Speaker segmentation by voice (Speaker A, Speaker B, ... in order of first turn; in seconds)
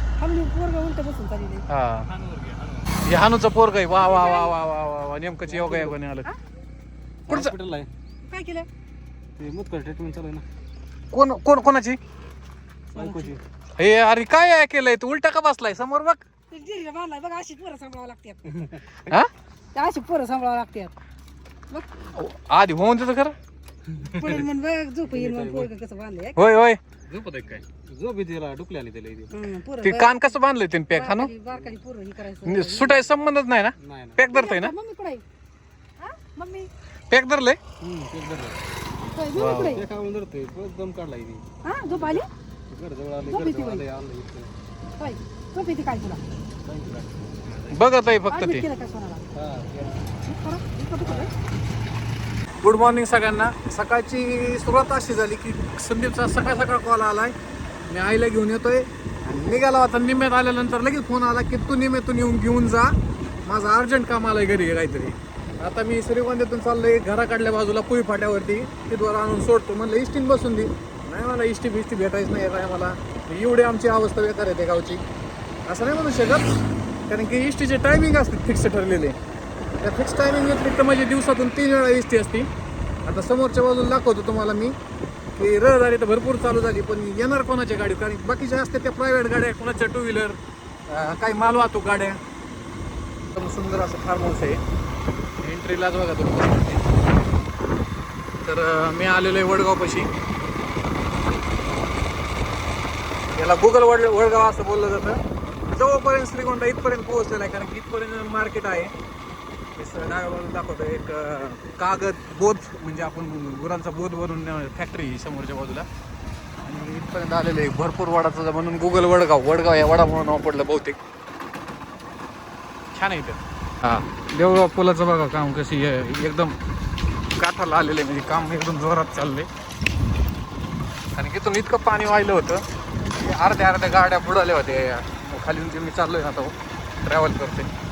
Speaker A: 0.2-1.7, 4.0-4.5, 8.2-8.7, 12.9-13.3, 16.5-18.7, 19.7-21.0, 24.0-26.6, 29.3-30.2, 30.9-33.1, 34.3-35.2, 36.0-36.7, 39.1-39.8, 41.6-42.3, 43.2-43.8, 45.0-46.2, 48.3-49.3, 50.2-51.3
Speaker B: 1.7-2.1, 3.0-6.3, 7.3-7.5, 11.1-12.0, 13.8-16.2, 22.1-23.3, 26.4-26.8, 29.8-31.3, 32.4-34.7, 37.1-37.6, 39.3-39.8, 47.7-48.6, 52.6-57.3, 57.9-62.9, 63.4-75.0, 75.7-79.1, 79.8-82.5, 83.0-84.8, 85.3-92.2, 93.3-94.6, 95.4-96.9, 98.4-100.1, 103.3-108.9, 109.8-115.8, 116.6-121.0, 122.9-126.5, 127.4-129.5, 131.1-137.7
Speaker C: 2.0-3.0, 5.5-5.9, 7.3-7.9, 9.4-10.4, 12.9-13.4, 23.9-24.4, 25.1-25.7, 27.1-29.3, 33.8-34.2, 37.8-38.6, 39.7-44.5, 46.6-47.7, 49.3-50.1, 51.0-51.3